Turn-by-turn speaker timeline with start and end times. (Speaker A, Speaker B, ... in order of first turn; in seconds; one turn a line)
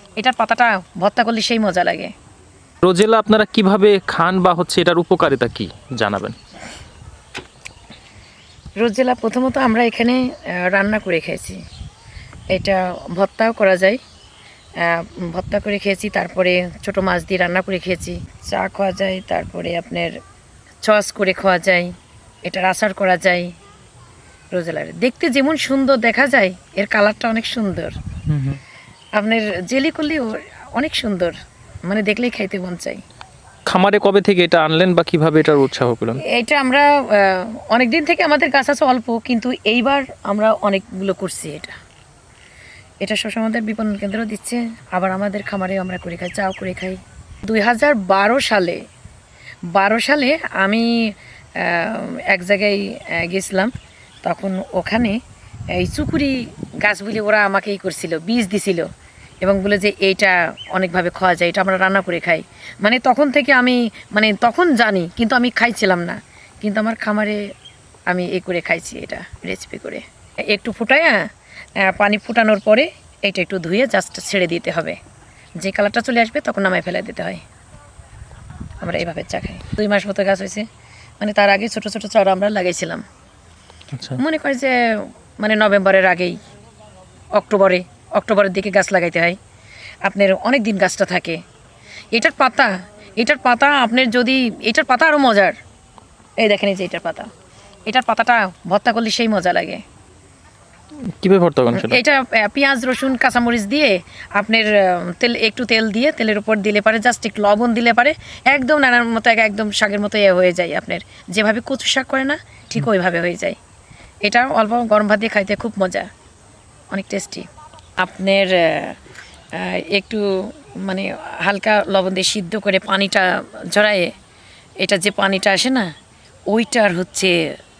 Speaker A: 0.2-2.1
Speaker B: 2.8-6.3
Speaker A: 8.8-11.6
Speaker A: 12.5-14.0
Speaker A: 14.8-20.2
Speaker A: 20.8-21.9
Speaker A: 22.4-23.5
Speaker A: 24.5-28.0
Speaker B: 28.3-28.6
Speaker A: 29.2-31.3
Speaker A: 31.9-33.0
Speaker B: 33.7-36.2
Speaker A: 36.2-41.7
Speaker A: 43.0-48.8
Speaker A: 49.7-53.7
Speaker A: 54.2-55.2
Speaker A: 55.7-58.9
Speaker A: 59.4-67.4
Speaker A: 68.1-71.3
Speaker A: 71.8-75.0
Speaker A: 75.6-77.4
Speaker A: 78.8-80.7
Speaker A: 81.2-83.0
Speaker B: 83.9-84.2
Speaker A: 84.2-86.4
Speaker A: 87.3-89.4
Speaker A: 90.0-91.4
Speaker A: 92.1-95.5
Speaker A: 96.4-97.3
Speaker A: 97.9-99.8
Speaker B: 101.2-102.0
Speaker A: 101.7-113.6
Speaker A: 114.2-116.1
Speaker A: 116.9-117.5
Speaker A: 118.0-119.0
Speaker A: 119.5-124.1
Speaker A: 124.8-125.9
Speaker A: 126.5-127.3